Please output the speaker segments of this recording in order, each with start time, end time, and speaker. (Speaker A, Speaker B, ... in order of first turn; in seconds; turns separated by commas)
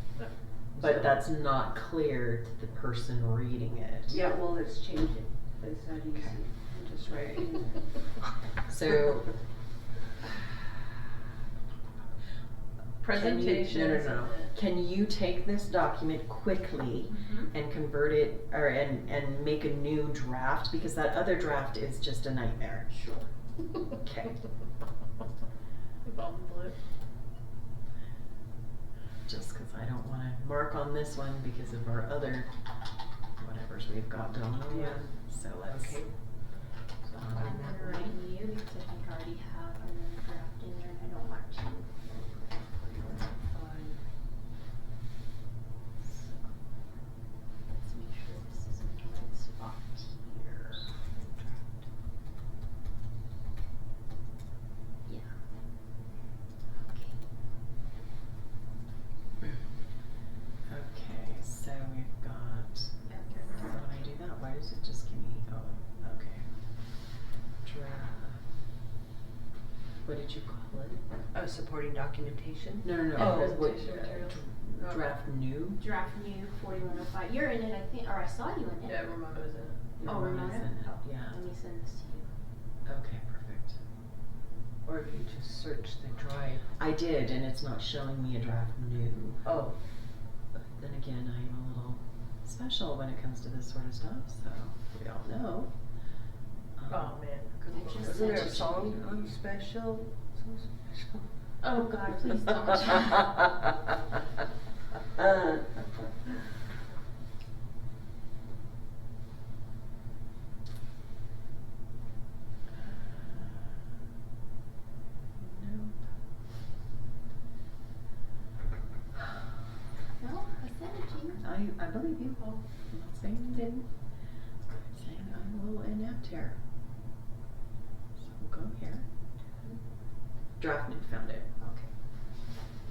Speaker A: 0.8-1.2, Speaker B: 0.8-4.2, Speaker A: 4.1-7.8, Speaker B: 8.7-9.3, Speaker C: 13.0-14.5, Speaker B: 13.1-22.9, Speaker D: 17.1-17.5, Speaker C: 22.9-23.2, Speaker B: 24.0-24.4, Speaker C: 26.0-26.7, Speaker B: 29.2-32.5, Speaker B: 33.4-36.0, Speaker A: 34.7-35.0, Speaker A: 35.6-36.1, Speaker B: 37.1-37.5, Speaker A: 37.1-38.2, Speaker D: 37.3-43.3, Speaker A: 43.3-44.0, Speaker D: 46.1-46.5, Speaker D: 47.7-50.9, Speaker A: 51.1-51.6, Speaker D: 56.8-57.1, Speaker B: 60.7-66.5, Speaker D: 63.1-63.5, Speaker B: 67.6-68.4, Speaker B: 70.0-71.0, Speaker A: 71.3-73.5, Speaker B: 72.8-75.8, Speaker C: 73.1-75.0, Speaker D: 75.8-79.2, Speaker C: 78.8-79.9, Speaker B: 80.0-81.3, Speaker D: 80.0-82.3, Speaker B: 82.8-83.8, Speaker A: 84.8-86.6, Speaker B: 86.8-89.5, Speaker A: 89.4-89.8, Speaker B: 90.5-95.7, Speaker B: 96.8-97.3, Speaker C: 96.9-98.7, Speaker D: 97.7-99.0, Speaker A: 98.0-101.2, Speaker B: 98.3-99.2, Speaker D: 101.6-103.5, Speaker B: 112.8-113.8, Speaker B: 115.4-116.0, Speaker D: 120.2-121.4, Speaker B: 121.4-123.9, Speaker B: 124.9-126.6, Speaker B: 128.2-129.1, Speaker B: 130.6-131.5, Speaker D: 131.6-131.9